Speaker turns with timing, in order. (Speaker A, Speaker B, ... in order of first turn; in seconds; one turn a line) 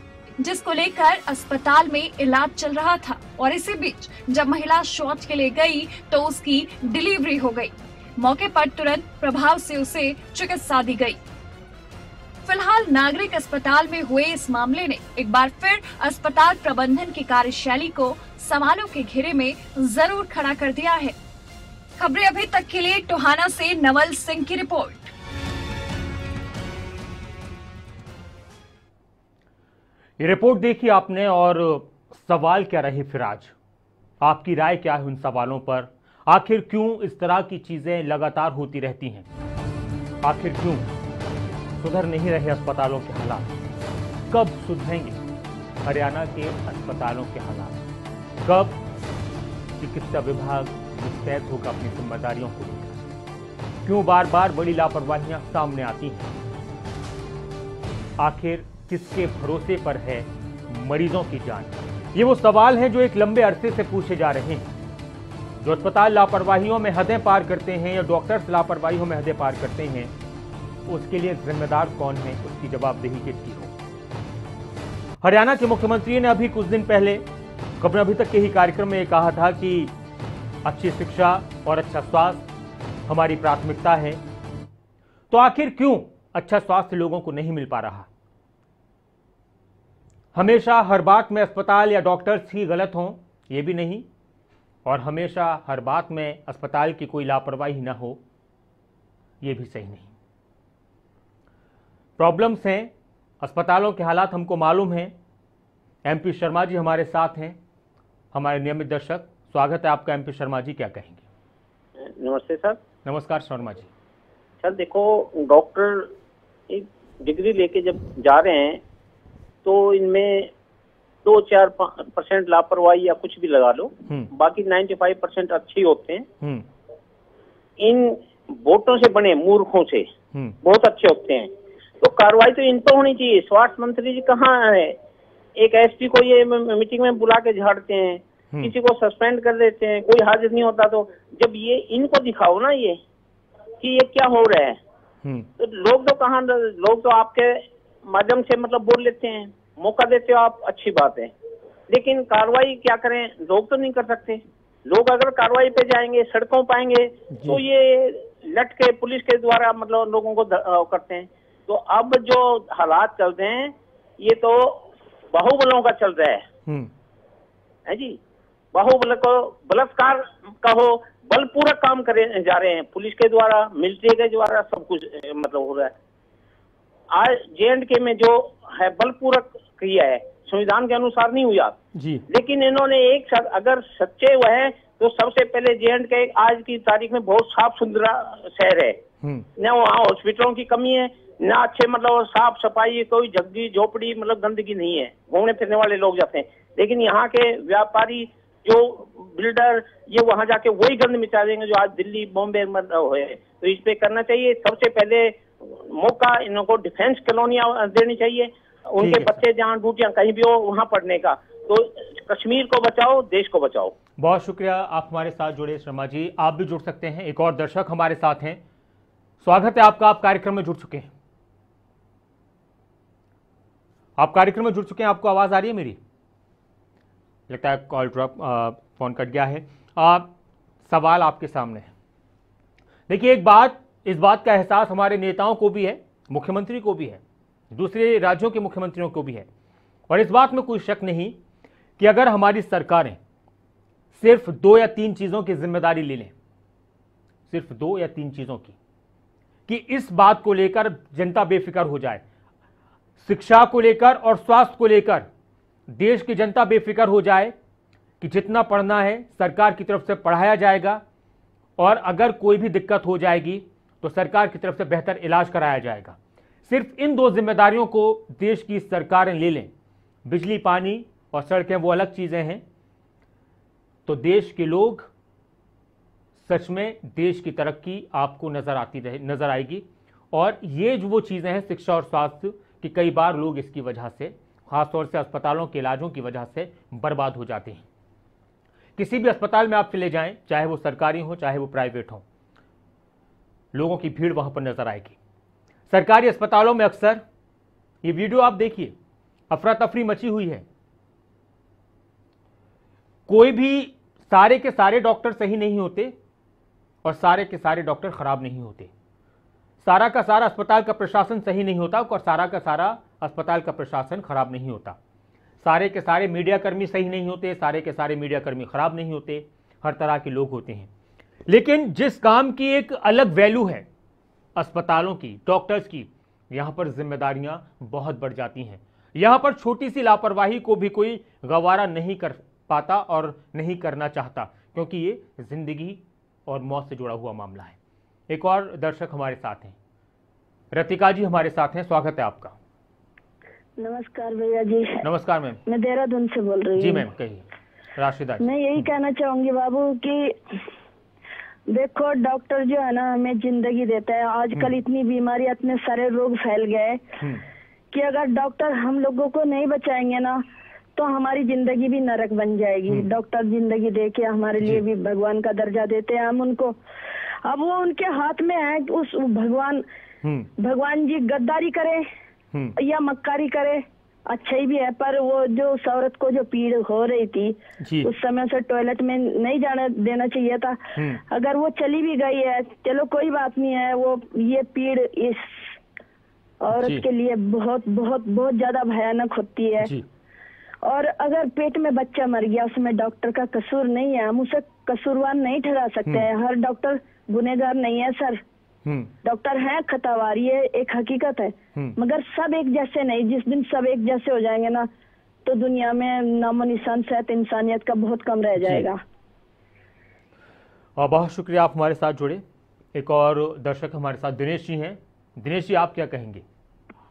Speaker A: 0.4-11.2
Speaker A: 12.4-21.1
Speaker A: 22.0-25.1
Speaker B: 30.2-33.5
Speaker B: 34.2-39.3
Speaker B: 40.2-40.9
Speaker B: 41.8-43.5
Speaker B: 44.3-45.2
Speaker B: 45.8-47.8
Speaker B: 48.4-48.8
Speaker B: 49.8-53.1
Speaker B: 53.8-56.3
Speaker B: 58.2-64.7
Speaker B: 65.6-70.1
Speaker B: 70.9-73.7
Speaker B: 75.2-77.2
Speaker B: 77.8-79.9
Speaker B: 80.6-82.5
Speaker B: 83.1-84.2
Speaker B: 85.3-88.1
Speaker B: 90.3-94.0
Speaker B: 94.8-98.2
Speaker B: 99.4-100.1
Speaker B: 102.2-105.1
Speaker B: 106.0-107.6
Speaker B: 108.3-111.2
Speaker C: 112.0-112.8
Speaker B: 113.0-113.9
Speaker C: 114.6-116.1
Speaker C: 116.7-118.8
Speaker C: 119.6-120.5
Speaker C: 121.2-126.3
Speaker C: 127.8-130.1
Speaker C: 130.6-135.0
Speaker C: 135.6-143.0
Speaker C: 143.8-144.8
Speaker C: 145.6-151.3
Speaker C: 151.9-166.4
Speaker B: 157.3-157.6
Speaker B: 166.7-166.9
Speaker C: 167.8-168.2
Speaker C: 168.7-175.9
Speaker C: 177.1-189.0
Speaker B: 181.9-182.2
Speaker C: 189.6-213.9
Speaker B: 209.0-209.4
Speaker B: 214.2-218.6
Speaker B: 219.4-221.1
Speaker B: 224.2-226.0
Speaker B: 227.5-230.3
Speaker B: 230.9-231.9
Speaker B: 233.1-237.2
Speaker B: 237.7-239.5
Speaker B: 240.1-241.4
Speaker B: 242.0-243.2
Speaker B: 244.1-246.3
Speaker B: 247.5-248.8
Speaker B: 249.7-252.2
Speaker B: 253.2-255.3
Speaker B: 255.9-257.5
Speaker B: 258.2-261.0
Speaker B: 261.8-269.7
Speaker B: 270.2-272.6
Speaker B: 274.1-275.1
Speaker B: 276.4-287.8
Speaker B: 289.0-292.2
Speaker B: 293.7-295.1
Speaker B: 295.9-297.2
Speaker B: 298.0-298.9
Speaker B: 299.5-300.6
Speaker B: 303.3-306.1
Speaker B: 307.0-308.9
Speaker B: 309.8-315.0
Speaker B: 315.6-320.9
Speaker B: 321.5-323.9
Speaker B: 324.6-337.8
Speaker B: 338.3-339.7
Speaker B: 340.7-342.6
Speaker D: 343.8-345.0
Speaker B: 345.0-345.6
Speaker D: 345.6-347.1
Speaker B: 346.8-347.4
Speaker B: 347.9-348.9
Speaker D: 348.4-350.6
Speaker D: 351.7-357.0
Speaker D: 357.9-360.4
Speaker D: 360.9-366.8
Speaker D: 367.4-369.8
Speaker B: 370.2-370.5
Speaker D: 370.6-372.1
Speaker D: 372.8-385.8
Speaker B: 377.8-378.1
Speaker B: 380.9-381.2
Speaker D: 386.6-389.9
Speaker B: 386.7-387.1
Speaker B: 389.8-390.1
Speaker D: 390.8-398.4
Speaker B: 398.8-399.1
Speaker D: 399.2-404.9
Speaker D: 405.4-409.0
Speaker B: 408.6-408.9
Speaker B: 411.0-412.4
Speaker B: 412.9-416.4